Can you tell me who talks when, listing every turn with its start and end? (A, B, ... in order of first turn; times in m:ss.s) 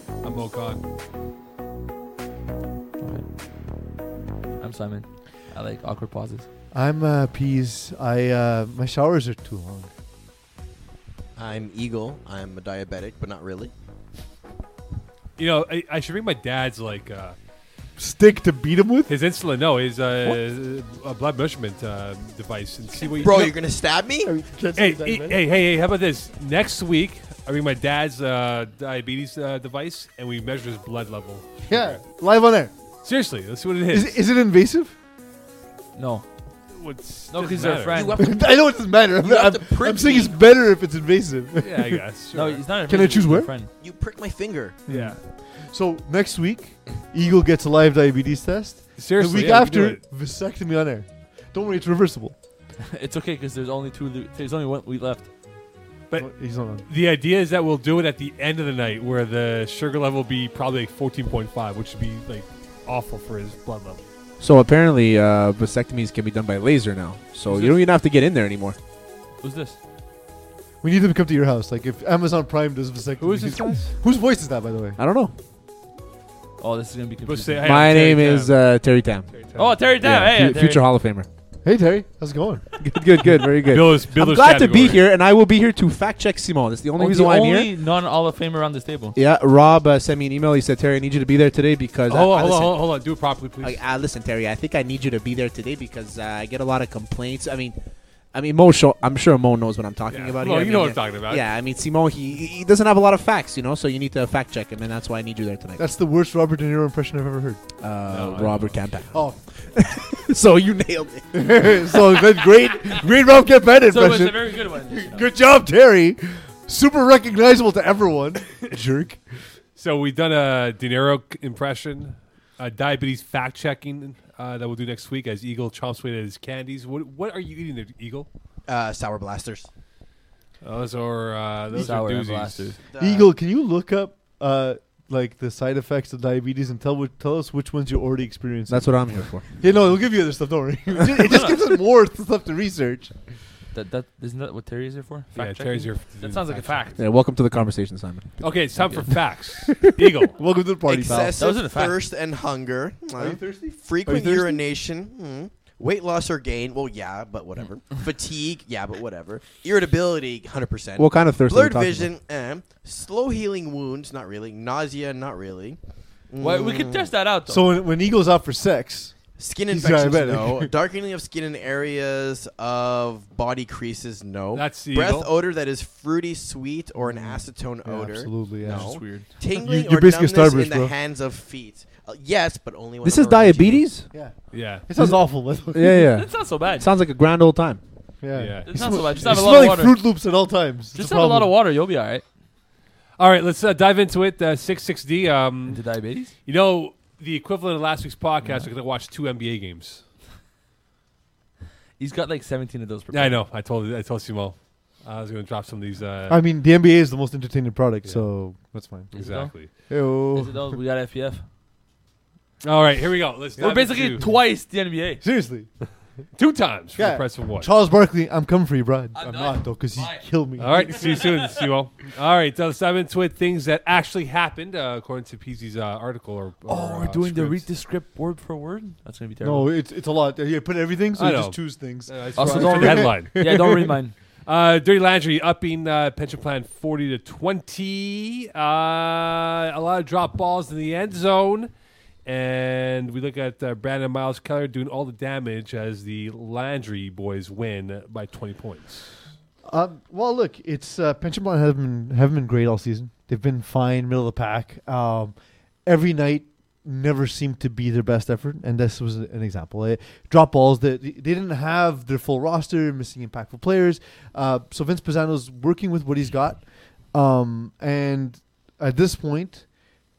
0:00.2-0:00.8 A
0:03.0-0:03.3 B
0:04.6-0:06.5 B
0:06.7-0:09.9 C
0:11.4-0:13.7 D
0:15.4-0:17.4 A
0:18.0-0:19.2 C
0:19.1-0:23.6 A
0:23.0-0:24.3 D
0:24.2-0:25.4 C
0:24.8-0:32.0 A
0:31.7-0:32.7 C
0:33.0-0:34.2 A
0:33.9-0:35.0 C
0:36.0-0:36.2 B
0:36.8-0:38.1 A
0:37.3-0:38.2 B
0:37.9-0:38.5 D
0:38.2-0:42.0 C
0:39.2-0:40.3 D
0:41.6-0:42.6 A
0:42.3-0:43.7 B
0:42.9-0:43.5 C
0:43.8-0:44.8 D
0:44.9-0:52.4 C
0:44.9-0:45.2 A
0:49.0-0:50.0 A
0:52.9-0:55.3 B
0:56.1-1:04.0 A
0:56.1-0:56.9 C
1:04.4-1:08.8 E
1:07.5-1:07.8 A
1:09.4-1:09.8 B
1:10.8-1:15.0 C
1:13.2-1:13.9 A
1:15.0-1:15.3 E
1:16.6-1:17.7 B
1:17.3-1:18.6 A
1:17.6-1:19.3 E
1:19.4-1:19.8 A
1:19.6-1:20.9 B
1:20.0-1:21.3 E
1:21.6-1:22.6 C
1:22.8-1:27.7 E
1:23.7-1:25.0 A
1:27.0-1:29.2 B
1:29.2-1:32.9 E
1:32.1-1:33.8 A
1:33.6-1:37.8 E
1:38.3-1:45.8 E
1:40.1-1:41.4 A
1:45.8-1:47.6 C
1:47.8-1:51.5 E
1:48.1-1:48.8 A
1:49.1-1:49.4 C
1:51.3-1:59.2 C
1:53.9-1:55.3 B
1:59.8-2:08.3 A
2:08.7-2:09.7 D
2:10.6-2:12.7 A
2:11.7-2:12.8 B
2:12.9-2:13.3 D
2:13.0-2:23.1 C
2:18.7-2:19.6 E
2:21.2-2:21.6 B
2:23.7-2:27.0 B
2:25.4-2:26.9 A
2:27.0-2:28.6 E
2:28.4-2:30.4 A
2:30.3-2:31.4 C
2:30.9-2:47.1 D
2:31.4-2:32.0 B
2:33.2-2:34.6 C
2:41.0-2:42.1 E
2:46.4-2:47.7 B
2:47.5-2:50.7 C
2:49.4-3:03.9 D
2:54.5-2:55.3 A
2:57.0-3:00.9 C
2:58.6-2:59.2 B
3:03.0-3:04.1 E
3:04.1-3:06.1 C
3:04.5-3:04.9 A
3:05.7-3:07.8 E
3:06.1-3:06.9 B
3:08.2-3:11.5 C
3:08.3-3:09.3 A
3:08.6-3:10.0 B
3:10.9-3:12.2 B
3:13.2-3:15.8 A
3:15.7-3:16.3 B
3:16.4-3:20.0 A
3:18.4-3:18.7 B
3:22.0-3:23.3 B
3:23.1-3:26.4 A
3:26.3-3:29.1 C
3:29.1-3:29.5 B
3:29.1-3:29.7 A
3:29.7-3:30.5 C
3:30.3-3:31.4 B
3:32.6-3:34.2 A
3:33.6-3:35.2 B
3:35.2-3:35.7 C
3:36.3-3:37.7 A
3:37.0-3:41.0 C
3:39.1-3:41.6 B
3:40.6-3:47.6 A
3:46.7-3:49.7 B
3:49.4-3:53.9 C
3:51.2-3:53.9 A
3:52.3-3:54.1 B
3:54.4-4:01.7 A
4:02.2-4:09.1 A
4:09.6-4:29.7 C